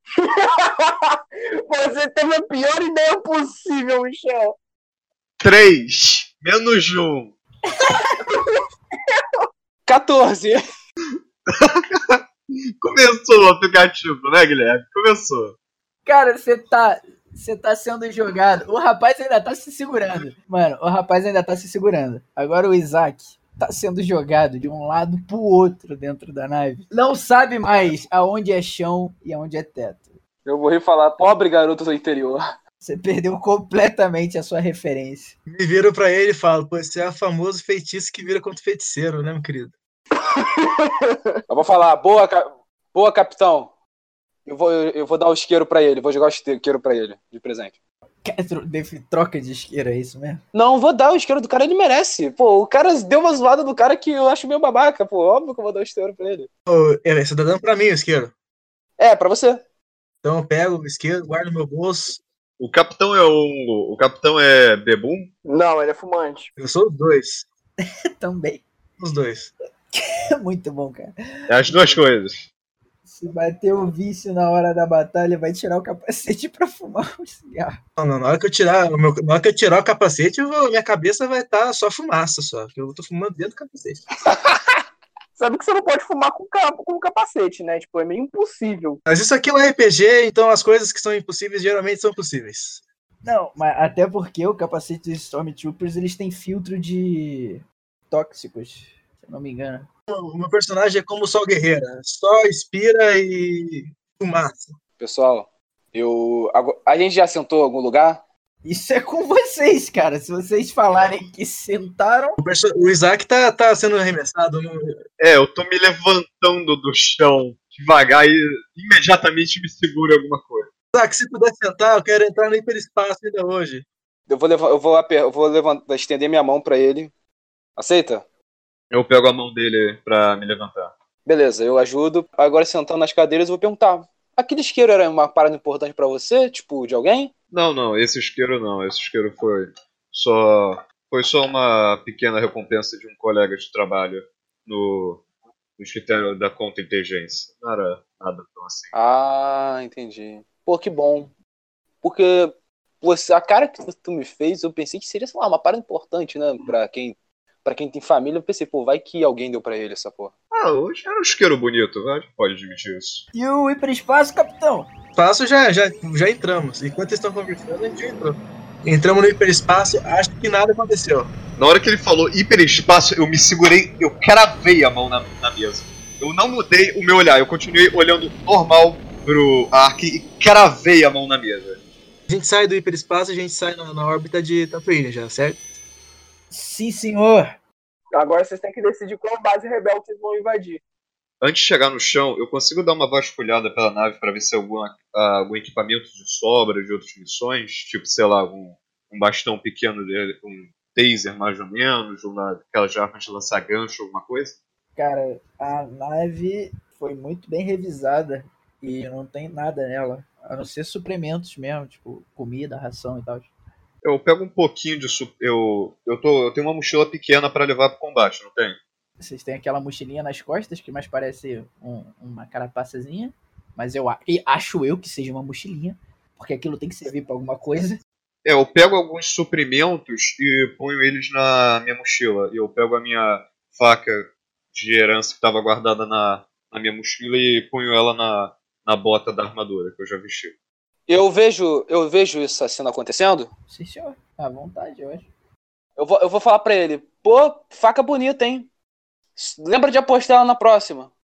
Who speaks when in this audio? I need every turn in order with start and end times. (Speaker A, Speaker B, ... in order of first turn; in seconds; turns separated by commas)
Speaker A: 0.1-4.6, Speaker B: 5.4-7.3, Speaker C: 7.7-8.2, Speaker A: 8.2-9.2, Speaker D: 9.8-10.6, Speaker B: 11.5-12.2, Speaker B: 12.8-15.5, Speaker C: 16.1-30.2, Speaker D: 30.4-32.4, Speaker C: 32.8-35.4, Speaker E: 35.5-39.7, Speaker A: 40.2-41.3, Speaker D: 41.5-43.7, Speaker D: 44.5-47.8, Speaker C: 48.2-50.4, Speaker D: 50.5-56.5, Speaker E: 56.7-58.3, Speaker D: 59.0-59.6, Speaker E: 60.2-62.2, Speaker B: 62.6-65.3, Speaker A: 65.5-66.5, Speaker E: 66.6-67.5, Speaker C: 67.8-68.7, Speaker E: 69.0-69.5, Speaker C: 69.9-72.0, Speaker B: 71.5-72.5, Speaker C: 73.0-77.8, Speaker E: 78.0-84.1, Speaker A: 85.4-89.0, Speaker E: 89.1-92.8, Speaker C: 93.2-99.9, Speaker E: 100.1-104.7, Speaker D: 105.0-108.2, Speaker C: 108.6-112.4, Speaker E: 112.4-114.9, Speaker B: 115.2-120.7, Speaker E: 120.9-123.8, Speaker D: 124.3-127.1, Speaker D: 127.8-128.2, Speaker B: 128.9-130.9, Speaker D: 131.2-137.3, Speaker B: 137.5-145.2, Speaker B: 145.8-148.9, Speaker D: 148.9-151.3, Speaker D: 152.0-160.3, Speaker B: 160.5-163.2, Speaker C: 163.3-164.9, Speaker E: 165.2-171.3, Speaker B: 171.6-181.8, Speaker E: 182.3-185.6, Speaker C: 186.5-187.6, Speaker A: 188.1-190.8, Speaker B: 191.4-204.6, Speaker C: 204.9-213.5, Speaker B: 214.0-218.8, Speaker C: 219.2-228.0, Speaker B: 228.4-240.5, Speaker D: 241.1-243.5, Speaker C: 243.7-245.3, Speaker D: 246.0-248.7, Speaker D: 249.3-251.1